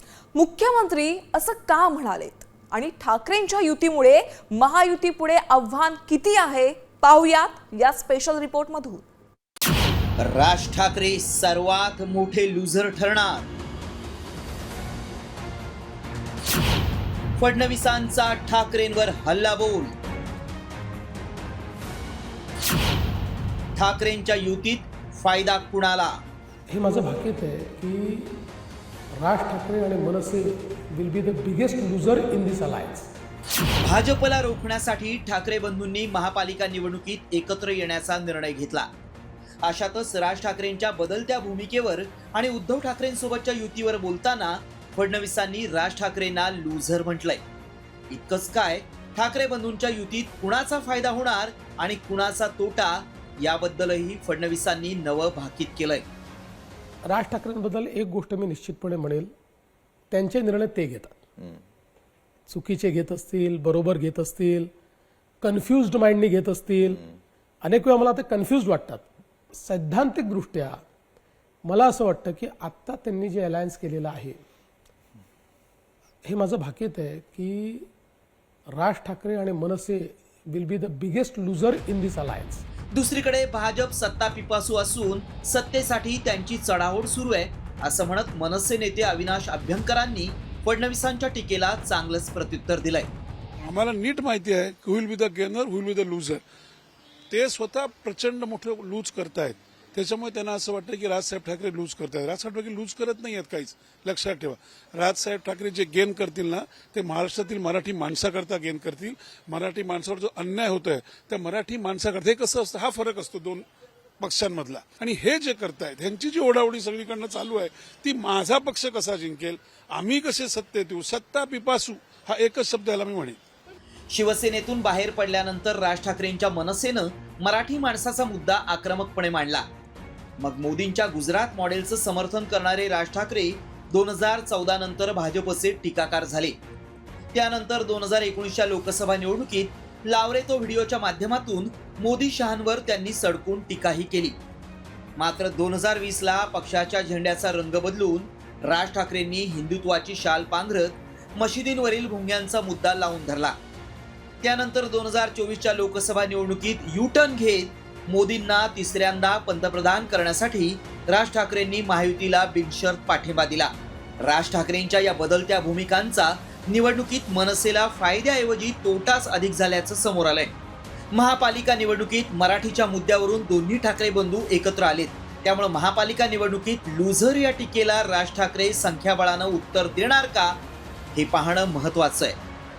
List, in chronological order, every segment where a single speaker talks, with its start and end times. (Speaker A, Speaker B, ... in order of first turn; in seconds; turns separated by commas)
Speaker A: 0.3-9.0, Speaker B: 10.2-13.4, Speaker B: 17.4-19.9, Speaker B: 23.8-26.1, Speaker C: 26.7-28.3, Speaker C: 29.2-33.1, Speaker B: 33.8-38.9, Speaker B: 39.6-47.4, Speaker B: 48.1-56.0, Speaker C: 57.1-59.3, Speaker C: 60.1-61.1, Speaker C: 62.5-64.7, Speaker C: 65.4-67.0, Speaker C: 67.6-69.1, Speaker C: 69.6-70.8, Speaker C: 71.7-74.4, Speaker C: 76.2-77.9, Speaker C: 78.8-82.6, Speaker B: 82.9-93.1, Speaker D: 93.6-96.4, Speaker D: 97.3-113.7, Speaker D: 114.2-123.4, Speaker B: 124.1-129.6, Speaker B: 130.4-136.6, Speaker B: 137.3-144.4, Speaker B: 145.2-153.6, Speaker B: 154.4-163.7, Speaker B: 164.2-170.5, Speaker B: 171.1-180.6, Speaker B: 181.2-182.4